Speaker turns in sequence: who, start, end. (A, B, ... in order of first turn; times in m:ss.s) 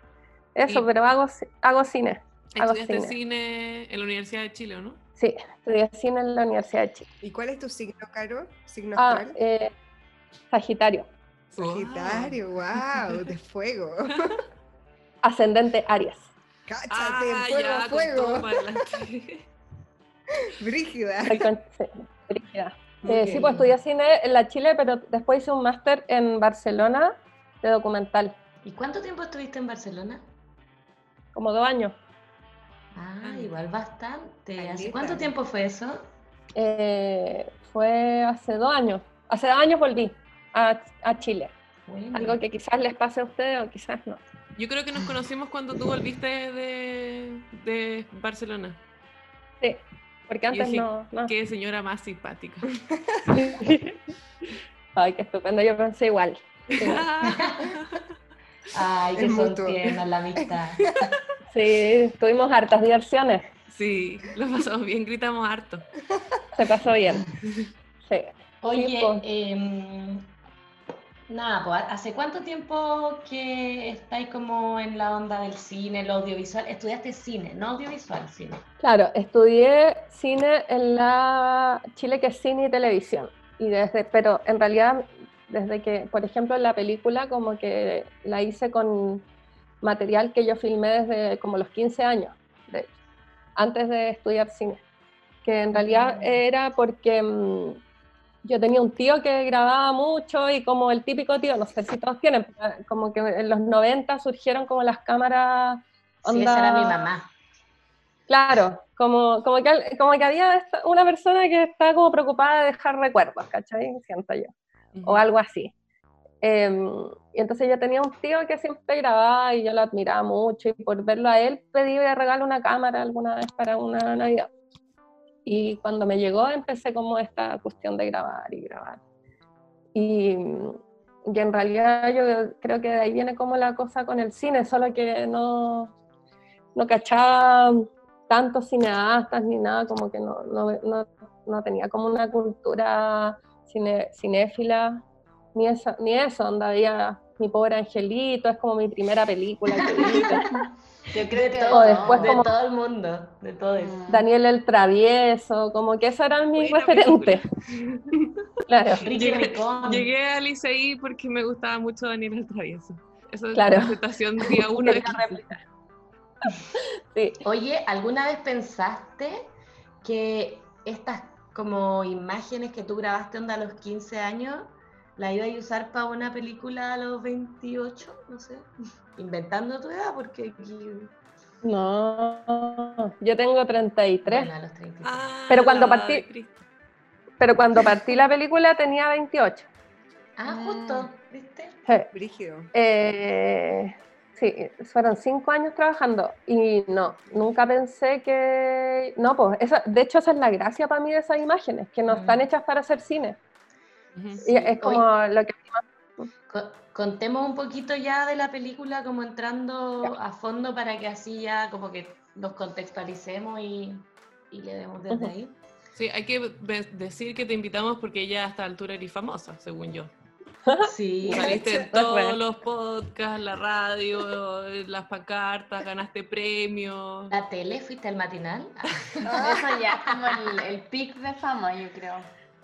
0:00.6-0:03.2 A
0:02.6-0:05.0 B
0:05.2-0:07.1 A
0:07.2-0:09.4 C
0:09.0-0:09.7 A
0:10.5-0:11.1 A
0:11.5-0:14.4 C
0:11.5-0:13.2 B
0:15.2-0:16.3 A
0:16.7-0:18.8 C
0:16.9-0:19.5 B
0:20.4-0:21.5 C
0:21.3-0:28.4 A
0:23.0-0:23.8 D
0:28.6-0:30.3 D
0:31.3-0:32.0 A
0:32.9-0:36.1 D
0:33.2-0:33.6 B
0:34.6-0:35.4 C
0:36.6-0:41.5 A
0:41.9-0:42.4 D
0:42.1-0:44.2 A
0:44.6-0:48.8 B
0:49.6-0:51.3 A
0:50.5-0:52.8 B
0:53.3-0:54.0 A
0:55.0-0:57.1 A
0:56.8-0:58.0 B
0:57.2-0:57.7 D
0:58.7-1:01.1 D
0:59.2-0:59.8 C
1:01.5-1:03.5 A
1:03.7-1:05.8 B
1:06.6-1:07.3 A
1:08.1-1:09.2 A
1:08.6-1:10.3 D
1:11.3-1:18.6 D
1:18.8-1:29.2 A
1:29.8-1:32.9 A
1:33.6-1:34.8 A
1:35.4-1:37.8 A
1:35.8-1:36.3 D
1:38.4-1:47.0 A
1:46.2-1:47.3 D
1:48.3-1:54.5 A
1:54.9-1:55.2 B
1:55.0-1:55.7 A
1:56.4-2:04.5 A
2:05.5-2:09.0 A
2:10.0-2:15.9 A
2:16.8-2:25.0 A
2:25.6-2:30.6 A
2:29.9-2:30.3 D
2:30.0-2:30.7 E
2:31.1-2:34.0 D
2:31.2-2:32.5 E
2:31.7-2:32.5 A
2:33.7-2:34.3 E
2:34.1-2:37.4 A
2:36.6-2:38.3 B
2:38.7-2:39.1 A
2:38.9-2:40.1 D
2:39.1-2:45.4 B
2:43.5-2:44.0 A
2:44.5-2:45.6 A
2:46.8-2:47.4 A
2:47.4-2:49.4 D
2:50.0-3:01.1 D
3:01.6-3:04.5 A
3:04.2-3:05.2 D
3:05.0-3:06.6 B
3:05.5-3:06.2 A
3:07.4-3:09.7 A
3:10.4-3:11.8 D
3:10.5-3:11.1 E
3:12.1-3:12.7 C
3:12.7-3:23.4 A
3:22.1-3:22.5 D
3:24.2-3:24.4 B
3:24.4-3:25.1 D
3:24.4-3:26.3 A
3:26.5-3:35.6 D
3:36.0-3:40.1 B
3:40.7-3:42.4 A
3:40.8-3:41.6 D
3:41.3-3:47.3 B
3:47.3-3:50.6 D
3:49.2-3:52.3 E